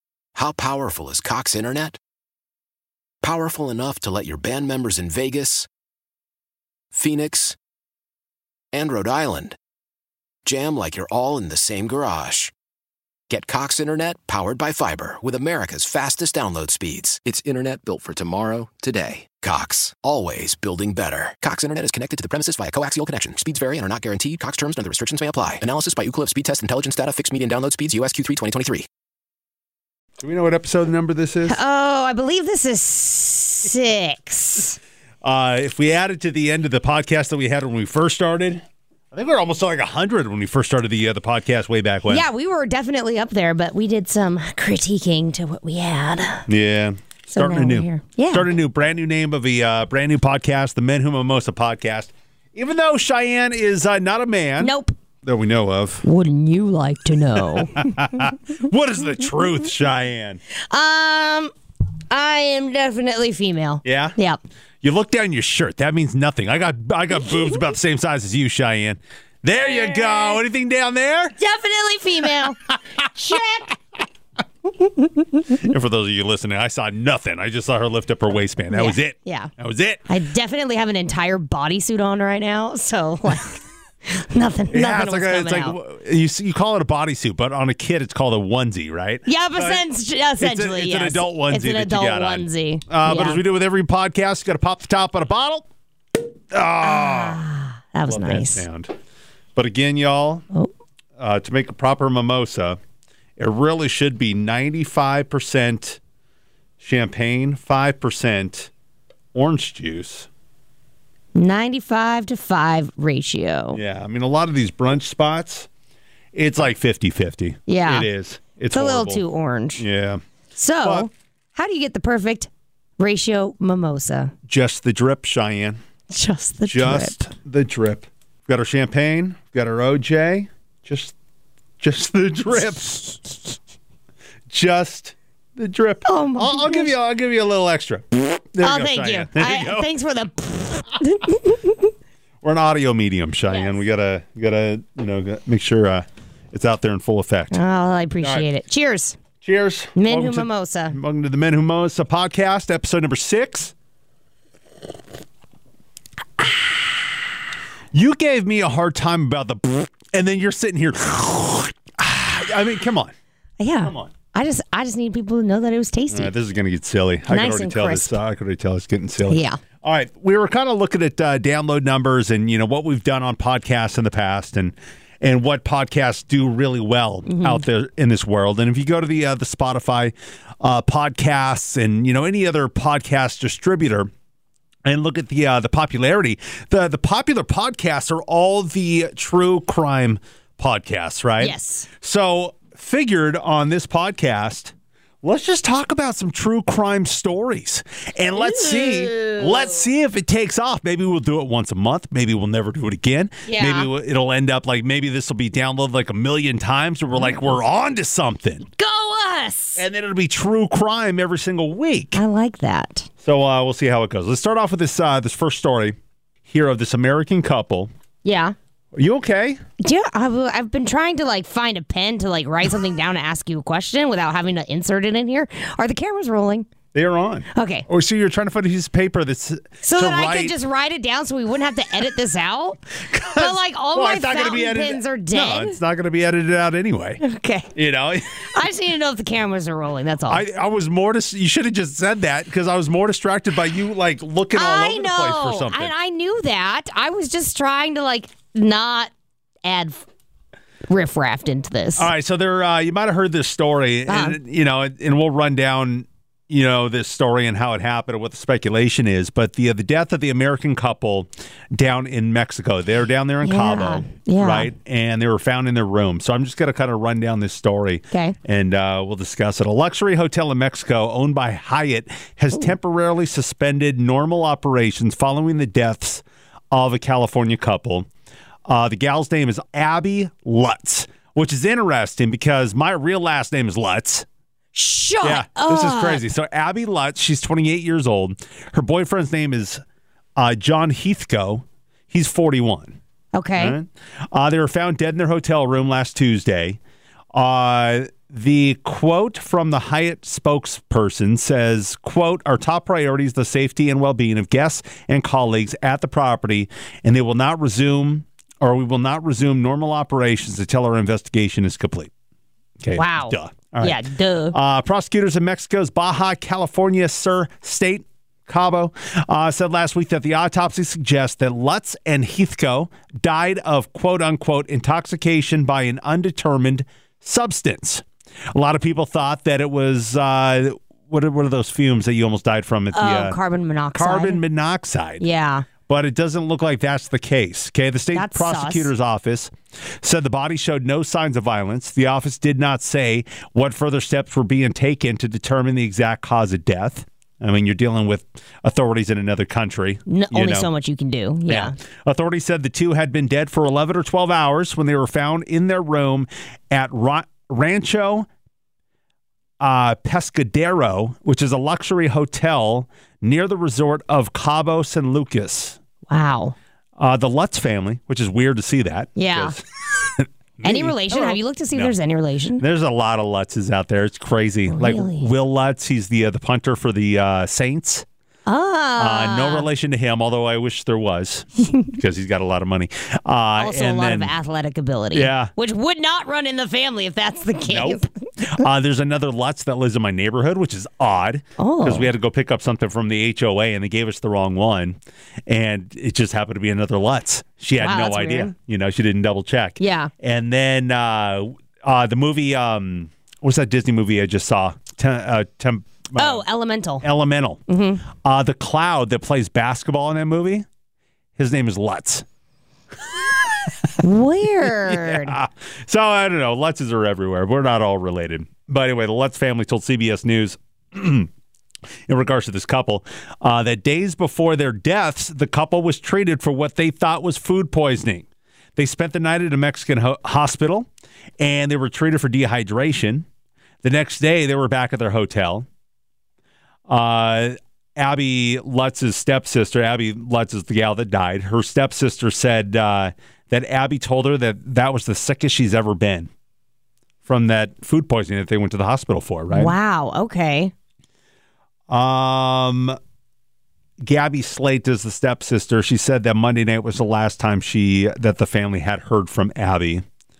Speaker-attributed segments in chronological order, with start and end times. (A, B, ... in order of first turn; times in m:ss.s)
0:00.4-0:02.0 A
0:03.2-0:05.7 A
0:06.9-0:07.6 A
0:08.7-0:09.6 A
0:10.4-0:12.5 A
0:13.3-0:28.8 A
0:30.2-0:31.6 B
0:31.5-0:34.8 C
0:35.2-0:42.2 B
0:42.1-0:46.4 C
0:46.5-0:56.0 B
0:47.3-0:48.5 C
0:54.6-0:54.9 C
0:56.0-0:58.3 C
0:57.3-1:00.4 B
1:00.7-1:01.5 C
1:02.1-1:04.4 C
1:03.8-1:04.2 B
1:04.8-1:11.3 B
1:09.6-1:10.4 C
1:11.4-1:12.6 C
1:12.6-1:13.4 B
1:13.2-1:13.7 C
1:15.6-1:20.1 B
1:18.7-1:19.5 C
1:20.1-1:25.8 C
1:24.7-1:29.8 B
1:29.2-1:33.4 C
1:30.4-1:35.7 B
1:36.5-1:37.4 B
1:36.8-1:38.6 C
1:38.1-1:38.9 B
1:39.5-1:40.4 B
1:41.2-1:42.8 B
1:43.4-1:46.0 B
1:46.8-1:48.7 B
1:49.3-1:50.3 B
1:51.3-1:53.8 C
1:53.7-1:55.7 B
1:56.3-1:59.2 B
1:57.7-1:58.1 C
1:58.7-1:59.8 C
1:59.8-2:00.2 B
2:00.5-2:04.3 C
2:00.8-2:01.1 B
2:04.5-2:05.8 B
2:06.1-2:07.2 C
2:06.7-2:11.1 B
2:11.8-2:13.2 B
2:14.5-2:19.9 B
2:16.0-2:16.9 C
2:18.6-2:21.9 C
2:22.4-2:27.6 B
2:27.5-2:29.2 C
2:29.4-2:33.7 B
2:30.0-2:31.0 C
2:37.9-2:43.1 B
2:43.6-2:46.3 C
2:43.8-2:44.1 B
2:46.1-3:04.1 B
2:47.3-2:48.1 C
2:49.3-2:49.6 C
2:57.3-2:57.6 C
3:04.8-3:28.6 B
3:11.4-3:11.9 C
3:18.3-3:19.8 C
3:23.4-3:23.9 C
3:28.8-3:29.8 C
3:29.8-3:32.2 B
3:32.1-3:33.1 C
3:33.2-3:37.9 B
3:38.2-3:38.5 C
3:38.9-3:39.6 B
3:39.8-3:46.7 C
3:46.9-3:50.5 B
3:47.5-3:47.9 C
3:49.8-3:55.8 C
3:53.0-3:58.4 B
3:57.2-3:57.7 C
3:58.4-4:00.4 C
4:00.3-4:05.9 B
4:04.5-4:09.1 C
4:09.6-4:10.0 C
4:10.9-4:12.1 C
4:12.0-4:38.1 B
4:14.1-4:14.4 C
4:23.4-4:24.7 C
4:38.6-4:44.2 B
4:44.7-4:46.2 C
4:45.2-4:49.8 B
4:50.4-4:53.0 B
4:53.3-4:53.8 C
4:53.6-4:56.8 B
4:57.3-5:12.1 B
5:12.8-5:14.0 B
5:13.0-5:14.5 C
5:14.5-5:33.4 B
5:32.9-5:34.4 C
5:33.9-5:35.2 B
5:35.2-5:35.6 C
5:35.9-5:50.7 B
5:38.1-5:38.9 C
5:50.1-5:51.7 C
5:51.5-5:58.3 B
5:59.6-6:05.8 B
6:06.1-6:06.6 C
6:07.0-6:12.0 B
6:09.2-6:09.6 C
6:10.6-6:12.6 C
6:12.6-6:18.0 B
6:14.7-6:15.3 C
6:18.4-6:19.7 C
6:19.0-6:24.4 B
6:23.6-6:28.1 C
6:25.1-6:25.5 B
6:27.7-6:46.4 B
6:31.6-6:32.1 C
6:37.8-6:38.5 C
6:39.8-6:40.1 C
6:46.1-6:47.1 C
6:47.0-6:50.6 B
6:47.7-6:48.0 C
6:51.4-6:52.2 B
6:54.0-6:55.4 C
6:54.7-7:01.3 B
7:02.1-7:13.2 B
7:13.8-7:15.7 B
7:16.9-7:26.3 B
7:27.2-7:29.7 B
7:29.5-7:30.7 C
7:31.9-7:33.0 B
7:34.0-7:40.0 B